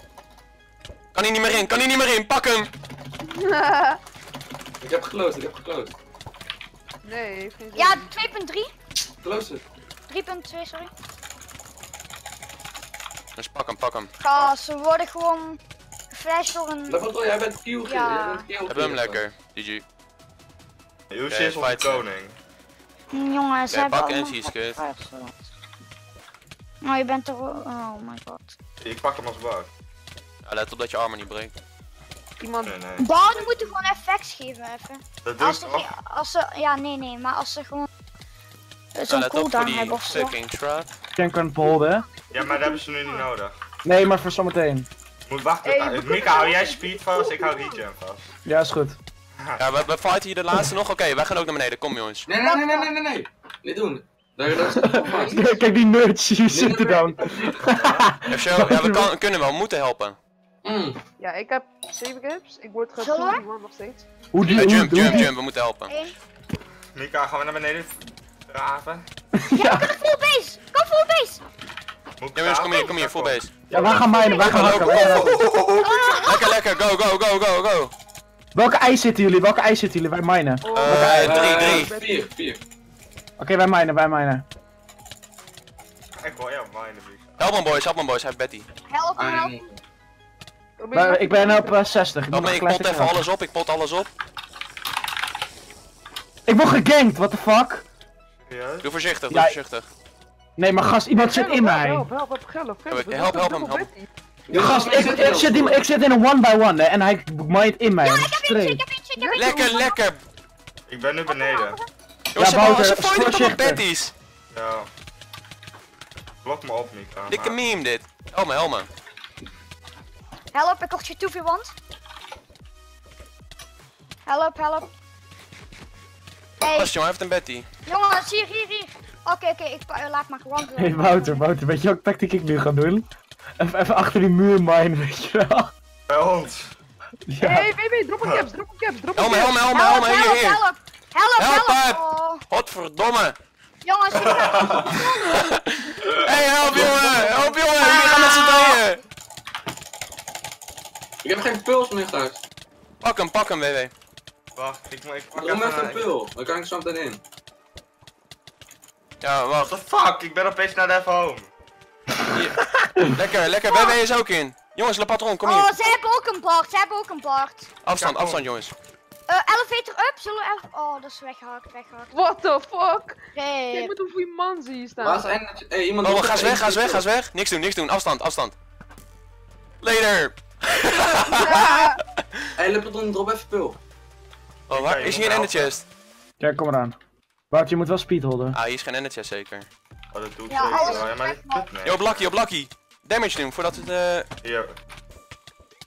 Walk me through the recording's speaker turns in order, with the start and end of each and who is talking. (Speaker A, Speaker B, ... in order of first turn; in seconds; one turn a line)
Speaker A: 1.1-2.7
Speaker B: 3.3-4.0
Speaker C: 4.8-5.9
Speaker B: 7.0-8.1
Speaker D: 7.7-8.7
Speaker C: 9.2-9.6
Speaker D: 10.1-10.9
Speaker A: 13.3-14.1
Speaker D: 14.2-15.6
Speaker D: 16.1-17.0
Speaker C: 16.9-19.2
Speaker D: 17.8-18.5
Speaker A: 18.7-19.8
Speaker E: 21.1-22.4
Speaker A: 21.3-22.0
Speaker D: 23.1-25.4
Speaker A: 23.7-24.8
Speaker D: 26.8-28.6
Speaker E: 28.8-29.7
Speaker A: 30.4-31.5
Speaker B: 32.4-32.7
Speaker E: 32.6-33.1
Speaker D: 33.0-37.9
Speaker E: 35.2-35.9
Speaker D: 38.9-40.4
Speaker A: 39.1-40.9
Speaker F: 41.1-42.1
Speaker E: 42.3-43.5
Speaker B: 42.3-43.3
Speaker F: 43.8-44.9
Speaker E: 45.2-48.3
Speaker B: 45.6-47.8
Speaker F: 48.5-49.0
Speaker A: 49.6-52.3
Speaker C: 52.3-55.6
Speaker B: 52.4-52.9
Speaker F: 54.7-59.1
Speaker B: 55.0-55.5
Speaker C: 56.5-57.7
Speaker E: 57.8-58.1
Speaker A: 58.3-60.2
Speaker C: 60.6-61.0
Speaker B: 61.2-64.1
Speaker D: 63.0-63.4
Speaker F: 64.3-65.3
Speaker A: 64.5-65.9
Speaker D: 64.9-65.3
Speaker D: 65.9-66.1
Speaker E: 66.9-69.0
Speaker F: 69.5-69.9
Speaker D: 69.5-71.4
Speaker E: 72.2-74.1
Speaker A: 72.3-73.5
Speaker F: 73.7-75.4
Speaker D: 74.0-75.2
Speaker A: 74.4-77.9
Speaker E: 74.6-75.4
Speaker D: 75.8-76.6
Speaker F: 78.5-81.6
Speaker B: 80.6-82.2
Speaker A: 80.7-81.9
Speaker C: 81.2-82.6
Speaker F: 83.4-84.4
Speaker E: 86.2-87.3
Speaker A: 87.4-88.7
Speaker D: 88.9-89.5
Speaker C: 89.2-89.8
Speaker B: 90.8-91.9
Speaker F: 90.9-93.2
Speaker A: 92.3-94.1
Speaker F: 96.5-97.8
Speaker E: 98.5-98.9
Speaker A: 98.8-99.9
Speaker F: 99.3-99.5
Speaker F: 100.6-102.1
Speaker B: 101.2-104.1
Speaker A: 102.9-103.9
Speaker C: 104.5-105.8
Speaker F: 104.5-108.8
Speaker D: 108.0-110.0
Speaker B: 109.2-109.8
Speaker A: 109.3-110.2
Speaker E: 110.9-111.8
Speaker D: 111.2-111.8
Speaker A: 112.3-114.1
Speaker F: 112.3-113.8
Speaker E: 114.5-114.9
Speaker E: 116.4-117.6
Speaker A: 117.3-118.9
Speaker D: 120.5-121.7
Speaker D: 124.2-124.9
Speaker D: 126.6-126.9
Speaker A: 126.7-127.7
Speaker D: 127.8-131.4
Speaker F: 130.8-133.1
Speaker F: 133.6-135.7
Speaker E: 136.1-136.7
Speaker F: 137.3-137.7
Speaker B: 137.4-139.6
Speaker A: 139.2-140.6
Speaker D: 139.6-142.4
Speaker A: 141.4-143.4
Speaker D: 143.8-145.4
Speaker E: 144.1-145.0
Speaker A: 145.1-149.0
Speaker B: 146.6-147.6
Speaker C: 146.7-147.1
Speaker D: 147.7-148.8
Speaker C: 151.2-152.4
Speaker A: 153.0-153.9
Speaker E: 154.5-156.1
Speaker C: 155.3-157.2
Speaker A: 159.2-159.7
Speaker E: 159.6-161.5
Speaker A: 162.3-165.7
Speaker D: 163.6-164.0
Speaker D: 165.4-167.7
Speaker A: 167.8-168.7
Speaker E: 167.9-168.5
Speaker D: 169.3-172.2
Speaker B: 172.1-173.2
Speaker D: 173.3-173.9
Speaker B: 173.7-175.4
Speaker C: 175.0-177.0
Speaker A: 176.0-178.6
Speaker A: 179.8-182.2
Speaker B: 181.3-182.0
Speaker C: 182.6-183.8
Speaker A: 184.7-185.8
Speaker E: 184.7-185.7
Speaker F: 186.4-186.9
Speaker F: 187.5-188.6
Speaker A: 188.5-189.7
Speaker E: 190.1-192.3
Speaker D: 190.5-191.7
Speaker B: 190.7-191.1
Speaker A: 191.8-194.3
Speaker E: 194.4-194.8